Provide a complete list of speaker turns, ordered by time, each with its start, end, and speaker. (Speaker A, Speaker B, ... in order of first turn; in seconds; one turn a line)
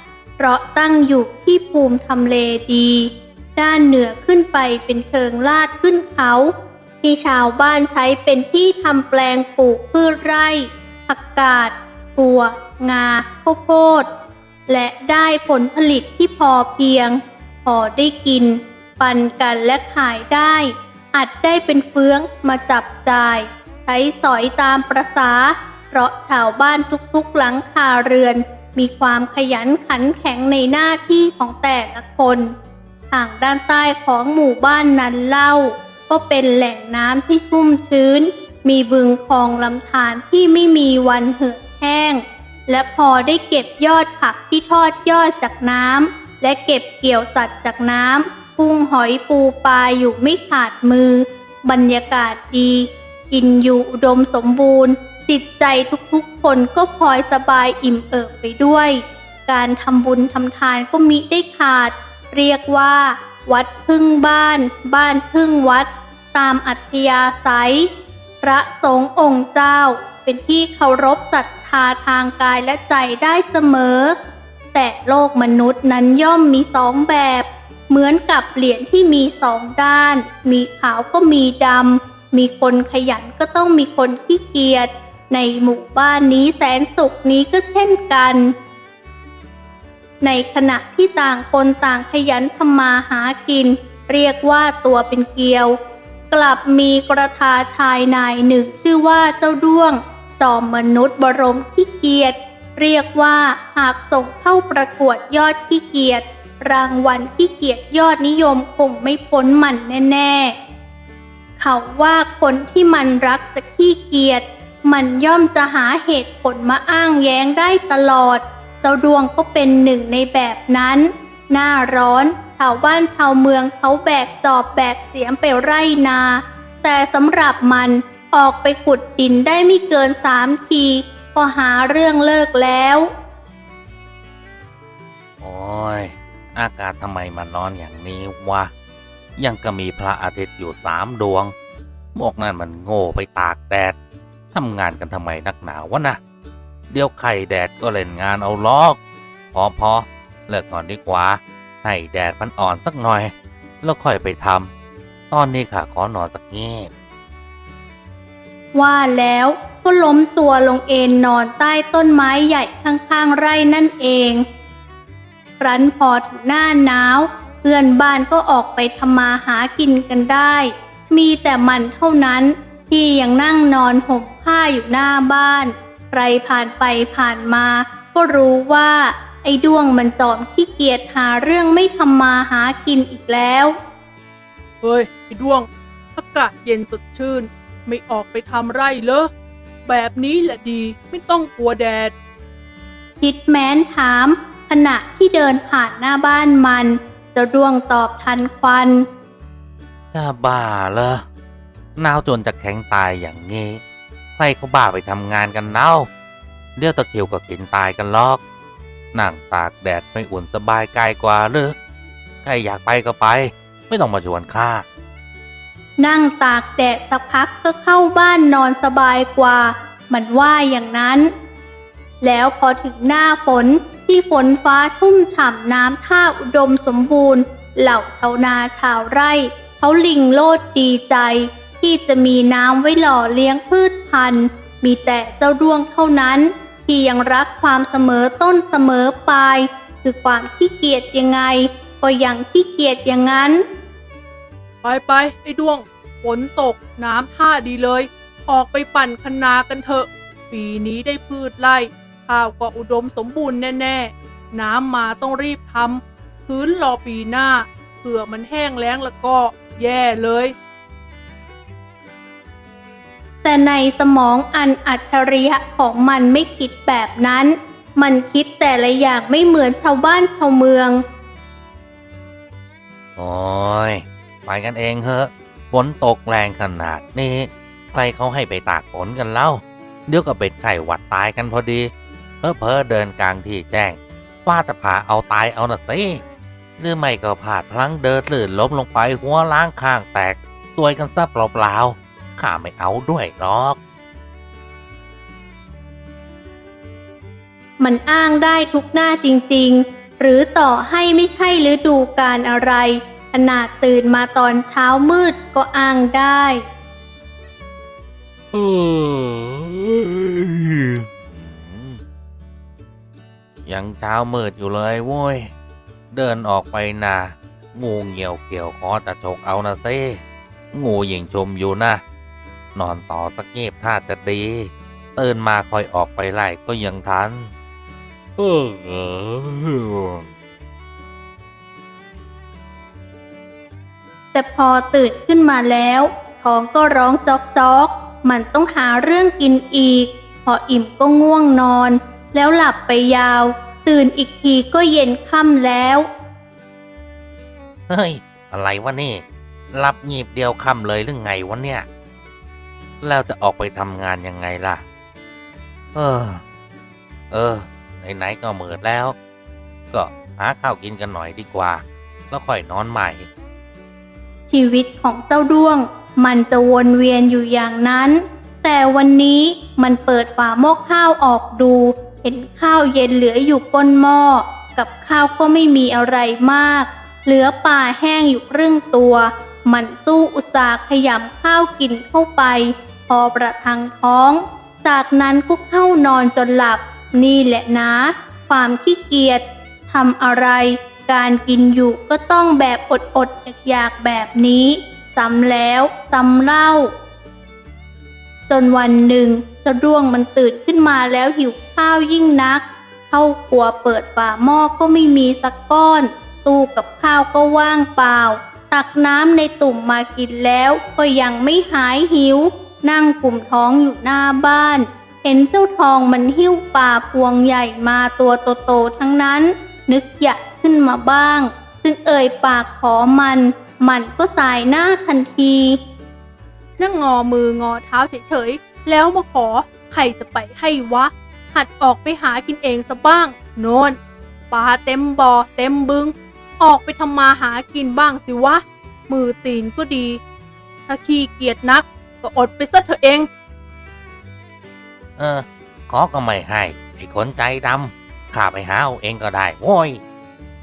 Speaker A: 0.4-14.1
Speaker A: 14.7-32.5
Speaker A: 33.1-67.9
Speaker A: 68.4-74.2
Speaker A: 74.7-88.5
Speaker A: 90.2-95.8
Speaker A: 96.3-110.5
Speaker A: 111.6-133.1
Speaker B: 135.4-138.7
Speaker B: 139.4-141.5
Speaker B: 142.2-144.0
Speaker B: 144.5-146.2
Speaker B: 146.9-149.0
Speaker B: 149.5-154.7
Speaker B: 155.3-156.9
Speaker A: 158.8-164.4
Speaker A: 165.6-183.7
Speaker C: 184.8-189.3
Speaker C: 189.9-192.1
Speaker A: 193.2-199.1
Speaker B: 200.1-201.3
Speaker B: 202.0-203.8
Speaker B: 204.4-206.1
Speaker B: 206.8-208.4
Speaker B: 209.1-211.8
Speaker B: 212.4-214.8
Speaker A: 216.0-221.3
Speaker A: 222.2-243.6
Speaker C: 244.8-260.5
Speaker A: 263.4-271.0
Speaker B: 273.1-281.9
Speaker B: 282.4-286.2
Speaker B: 286.8-293.8
Speaker A: 297.8-306.6
Speaker B: 308.5-312.0
Speaker B: 313.6-315.5
Speaker B: 316.1-322.0
Speaker B: 322.8-327.5
Speaker B: 328.4-330.3
Speaker A: 334.3-346.1
Speaker B: 347.9-351.9
Speaker B: 353.0-354.8
Speaker B: 355.9-356.4
Speaker B: 357.3-359.1
Speaker B: 359.9-363.3
Speaker A: 364.5-396.9
Speaker A: 398.5-425.8
Speaker C: 426.8-434.0
Speaker C: 434.5-440.2
Speaker C: 440.9-443.3
Speaker B: 445.2-450.0